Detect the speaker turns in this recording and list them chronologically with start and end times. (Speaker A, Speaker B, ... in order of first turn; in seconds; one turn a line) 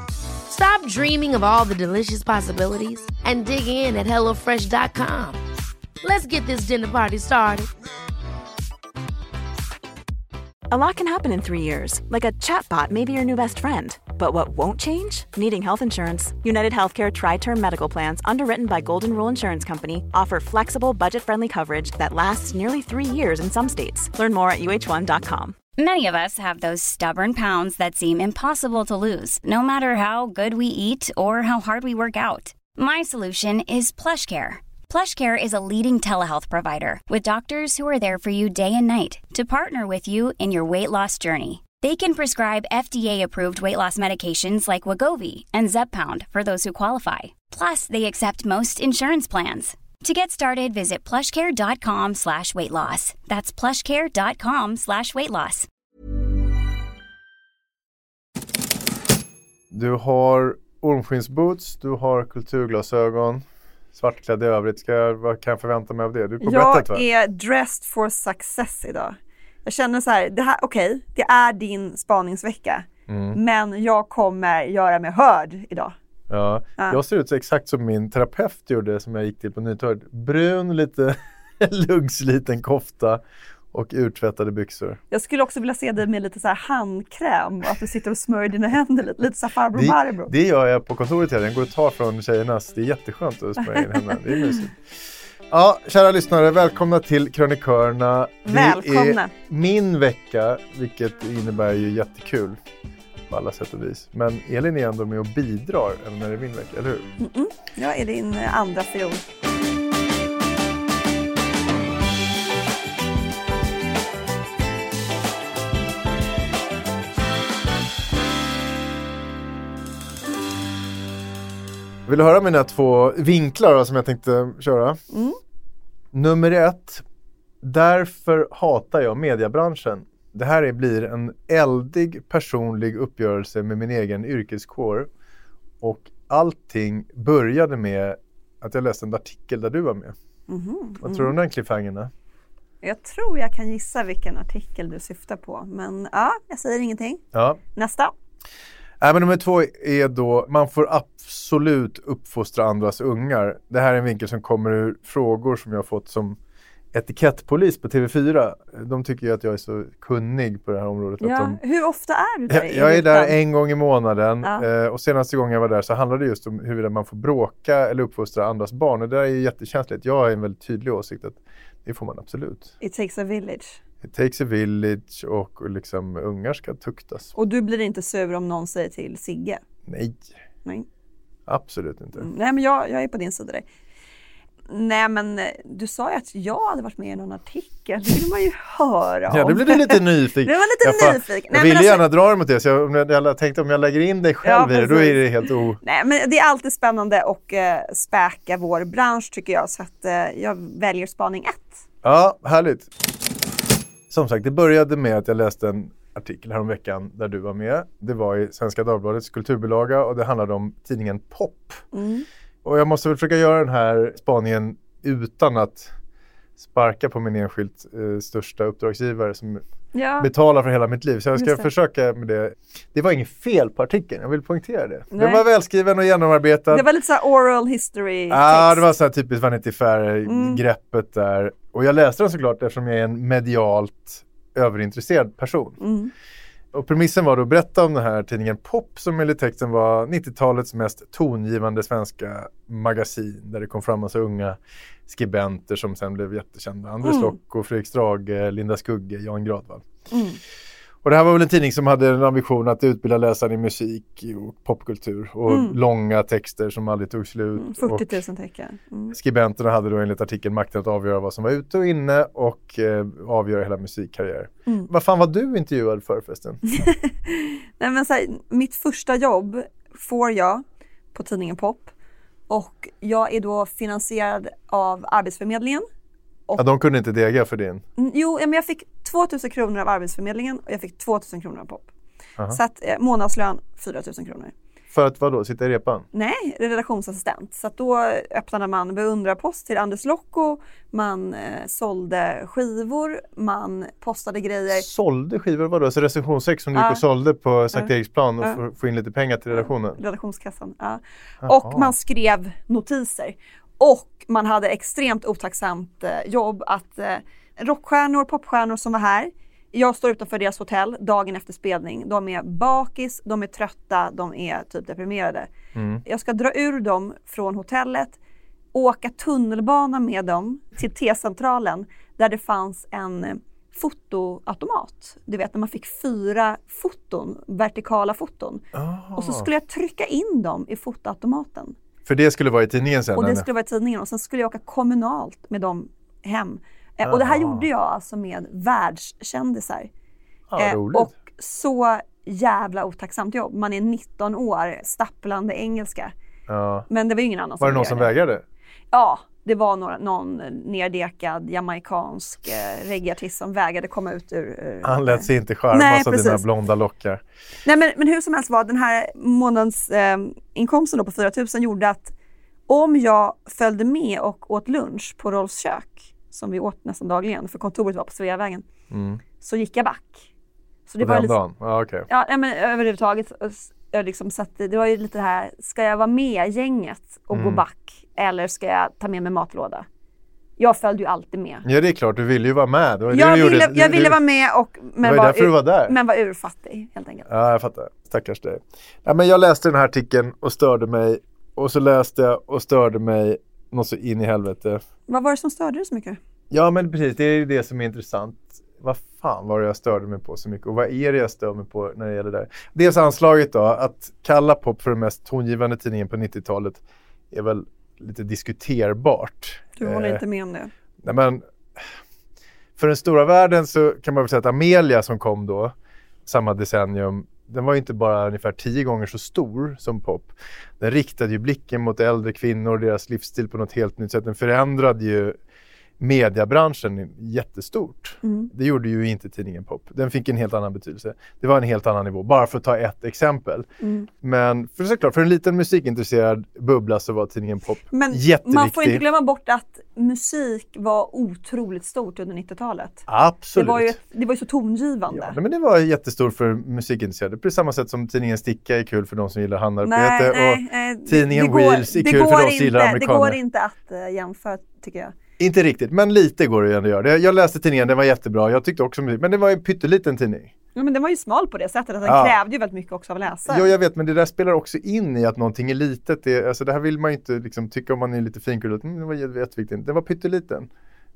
Speaker A: 0.5-5.4
Speaker A: 6.0-7.7
Speaker B: 10.7-25.6
Speaker C: 25.8-55.7
Speaker D: 59.7-63.4
Speaker D: 64.0-67.0
Speaker E: 66.4-76.0
Speaker D: 73.1-73.4
Speaker D: 76.3-83.2
Speaker D: 83.7-85.0
Speaker E: 85.1-90.3
Speaker D: 89.7-94.8
Speaker E: 93.6-94.7
Speaker D: 95.5-102.6
Speaker E: 98.5-99.3
Speaker D: 103.3-107.1
Speaker E: 107.2-109.3
Speaker D: 122.1-125.0
Speaker E: 125.1-125.4
Speaker D: 126.1-127.0
Speaker D: 127.6-135.1
Speaker D: 135.8-140.1
Speaker E: 140.5-141.4
Speaker D: 141.0-142.1
Speaker E: 142.8-147.2
Speaker D: 147.3-147.6
Speaker E: 147.7-148.1
Speaker D: 149.0-156.4
Speaker D: 156.9-161.6
Speaker E: 161.2-163.4
Speaker D: 162.5-172.7
Speaker E: 164.4-164.7
Speaker E: 172.8-173.8
Speaker D: 174.0-177.3
Speaker E: 177.3-179.6
Speaker D: 179.9-180.3
Speaker D: 181.5-182.3
Speaker E: 182.2-183.7
Speaker E: 184.7-192.1
Speaker D: 189.3-195.8
Speaker E: 194.4-201.8
Speaker D: 202.0-202.9
Speaker D: 204.1-211.8
Speaker E: 211.9-212.3
Speaker D: 212.6-215.9
Speaker D: 216.6-219.6
Speaker E: 219.9-220.3
Speaker D: 220.2-226.8
Speaker E: 221.3-221.7
Speaker E: 225.1-225.5
Speaker E: 226.7-228.9
Speaker D: 228.3-235.8
Speaker E: 230.3-230.6
Speaker E: 235.8-236.1
Speaker D: 236.7-249.9
Speaker E: 247.0-247.4
Speaker E: 250.1-250.4
Speaker D: 251.0-258.2
Speaker E: 255.5-255.8
Speaker E: 257.6-259.2
Speaker D: 259.1-266.6
Speaker E: 266.7-271.9
Speaker E: 272.5-275.9
Speaker E: 276.5-276.7
Speaker D: 276.6-277.8
Speaker E: 278.0-281.9
Speaker E: 282.5-284.5
Speaker D: 284.9-286.1
Speaker E: 286.1-294.9
Speaker D: 294.7-300.0
Speaker E: 296.7-297.0
Speaker E: 297.7-298.6
Speaker E: 299.5-315.5
Speaker D: 301.4-301.9
Speaker D: 315.7-316.0
Speaker E: 316.0-318.2
Speaker E: 318.7-328.6
Speaker D: 328.7-329.5
Speaker E: 329.2-331.8
Speaker D: 332.1-333.5
Speaker E: 333.1-339.9
Speaker D: 337.0-337.7
Speaker D: 340.5-341.1
Speaker E: 340.6-346.1
Speaker D: 346.5-346.9
Speaker E: 346.9-348.2
Speaker D: 347.6-348.4
Speaker E: 348.9-356.4
Speaker D: 354.8-357.2
Speaker E: 357.6-362.1
Speaker E: 362.7-368.7
Speaker D: 368.9-369.2
Speaker E: 369.4-370.3
Speaker E: 370.9-371.4
Speaker D: 371.0-372.1
Speaker E: 372.1-379.9
Speaker D: 377.3-377.6
Speaker E: 380.6-381.7
Speaker D: 381.6-384.2
Speaker E: 383.1-387.3
Speaker D: 385.0-386.0
Speaker D: 387.3-394.8
Speaker E: 395.1-396.2
Speaker D: 396.5-410.2
Speaker E: 409.8-410.7
Speaker D: 411.0-411.8
Speaker D: 412.8-415.7
Speaker D: 416.3-425.4
Speaker D: 426.0-433.7
Speaker E: 428.2-428.5
Speaker E: 433.8-434.1
Speaker D: 434.2-439.0
Speaker E: 437.9-445.4
Speaker D: 443.1-444.0
Speaker D: 445.1-453.4
Speaker E: 449.8-455.2
Speaker D: 455.4-460.5
Speaker E: 460.8-463.8
Speaker D: 462.0-462.4
Speaker D: 463.5-470.7